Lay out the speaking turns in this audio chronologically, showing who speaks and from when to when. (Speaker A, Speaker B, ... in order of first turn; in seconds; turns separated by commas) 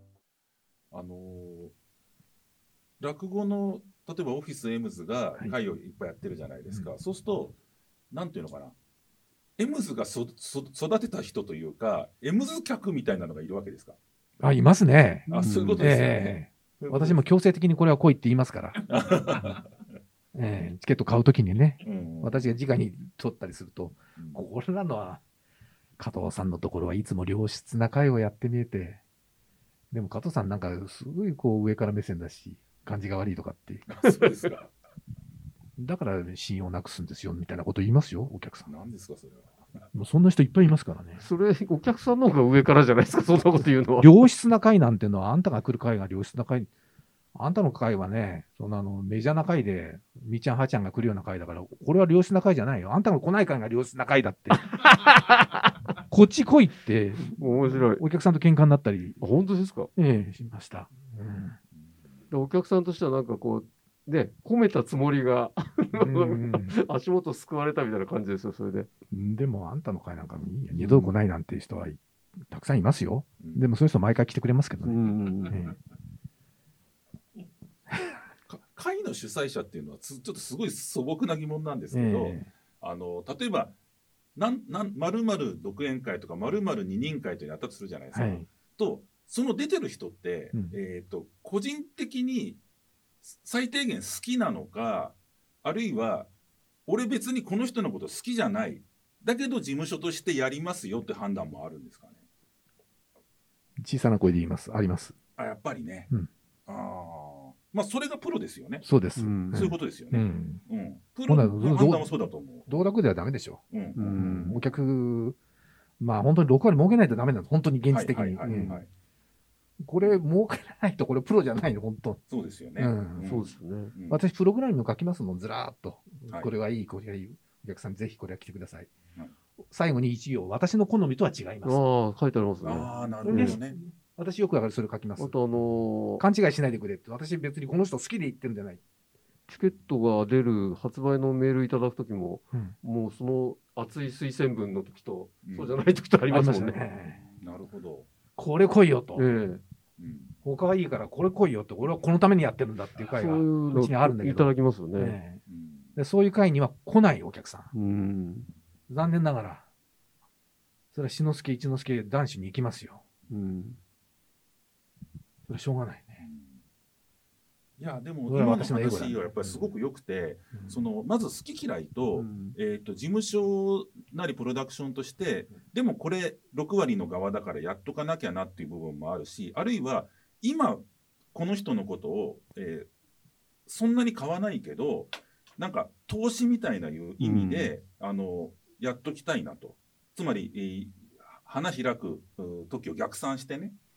Speaker A: 0.9-1.7, Speaker A: 3.0-7.6, Speaker A: 8.1-8.8, Speaker A: 9.6-14.0, Speaker B: 14.4-18.8, Speaker A: 15.3-17.2, Speaker C: 15.3-15.8, Speaker A: 18.9-19.7, Speaker B: 20.3-25.2, Speaker A: 21.8-22.5, Speaker A: 24.1-24.4, Speaker B: 26.0-29.0, Speaker B: 29.9-34.3, Speaker A: 33.9-34.7, Speaker B: 35.8-38.7, Speaker A: 38.7-39.5, Speaker B: 39.9-41.2, Speaker C: 41.2-44.1, Speaker B: 44.0-46.7, Speaker B: 47.4-54.8, Speaker B: 56.1-59.2, Speaker C: 57.2-58.0, Speaker C: 59.2-59.9, Speaker B: 60.0-61.6, Speaker C: 62.3-68.9, Speaker B: 66.0-66.8, Speaker B: 69.1-75.8, Speaker C: 70.7-71.1, Speaker C: 74.8-75.6, Speaker B: 77.9-78.2, Speaker A: 78.5-83.7, Speaker B: 81.9-82.5, Speaker A: 84.4-92.6, Speaker B: 88.1-88.5, Speaker A: 93.2-96.3, Speaker A: 96.9-102.2, Speaker B: 103.8-105.2, Speaker A: 105.4-106.1, Speaker A: 106.7-108.8, Speaker B: 108.8-110.6, Speaker C: 109.2-109.7, Speaker A: 109.5-112.8, Speaker B: 111.3-112.1, Speaker B: 112.7-115.4, Speaker A: 113.7-114.7, Speaker C: 114.0-114.6, Speaker B: 116.0-118.8, Speaker A: 117.9-118.9, Speaker C: 118.5-118.7, Speaker B: 119.8-122.2, Speaker A: 122.3-124.2, Speaker B: 122.8-123.3, Speaker C: 123.2-123.9, Speaker B: 124.1-128.9, Speaker B: 129.7-131.8, Speaker C: 131.6-133.6, Speaker A: 132.6-133.8, Speaker B: 133.2-135.4, Speaker C: 135.2-136.2, Speaker B: 136.2-138.8, Speaker C: 139.5-146.8, Speaker A: 145.4-146.0, Speaker B: 146.3-147.2, Speaker A: 147.2-148.1, Speaker B: 148.4-149.3, Speaker C: 149.2-149.6, Speaker A: 150.0-150.4, Speaker B: 150.4-155.4, Speaker C: 153.0-155.2, Speaker A: 155.5-156.0, Speaker B: 155.9-157.7, Speaker C: 157.7-158.5, Speaker B: 158.9-159.7, Speaker B: 160.9-163.0, Speaker C: 163.3-163.8, Speaker B: 165.5-166.2, Speaker A: 166.2-166.6, Speaker A: 167.8-182.9, Speaker B: 168.2-169.7, Speaker B: 170.5-170.8, Speaker C: 172.2-172.6, Speaker A: 183.7-193.8, Speaker C: 187.2-187.7